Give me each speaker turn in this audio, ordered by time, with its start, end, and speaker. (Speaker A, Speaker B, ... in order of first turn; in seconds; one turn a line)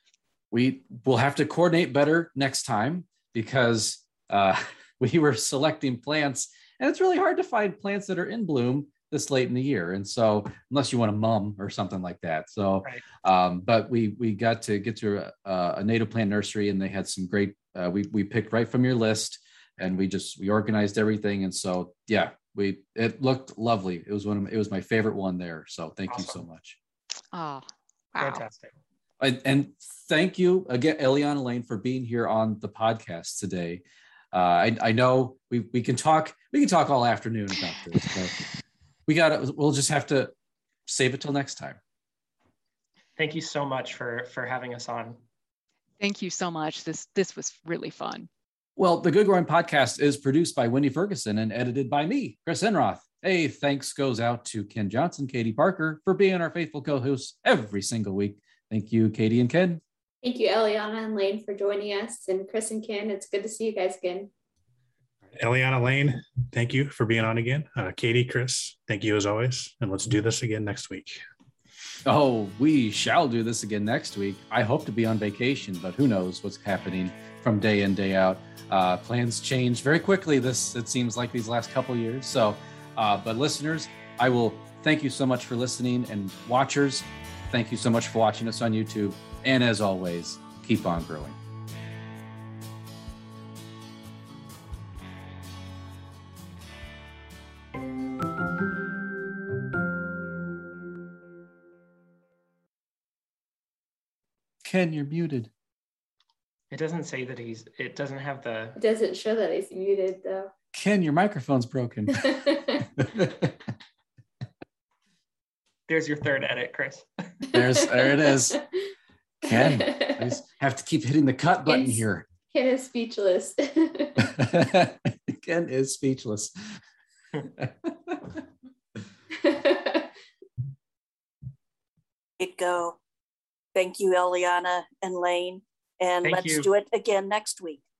Speaker A: 0.5-26.8
Speaker B: 26.1-26.4
Speaker C: 27.3-28.5
Speaker B: 28.2-28.8
Speaker A: 29.2-38.4
Speaker A: 39.1-40.3
Speaker A: 40.9-41.8
Speaker B: 43.2-45.2
Speaker C: 46.0-48.3
Speaker A: 48.8-59.8
Speaker D: 60.2-64.3
Speaker E: 65.3-71.2
Speaker A: 72.0-91.4
Speaker A: 104.6-105.5
Speaker B: 106.7-108.8
Speaker D: 108.8-110.5
Speaker A: 110.7-112.3
Speaker D: 112.2-112.8
Speaker A: 113.0-113.5
Speaker B: 115.9-117.1
Speaker A: 117.5-118.6
Speaker D: 117.5-118.6
Speaker A: 119.4-122.2
Speaker D: 119.5-120.3
Speaker D: 121.7-124.4
Speaker A: 124.2-126.8
Speaker A: 127.6-128.4
Speaker D: 129.4-130.1
Speaker F: 132.4-133.0
Speaker F: 133.7-137.8
Speaker B: 136.2-136.7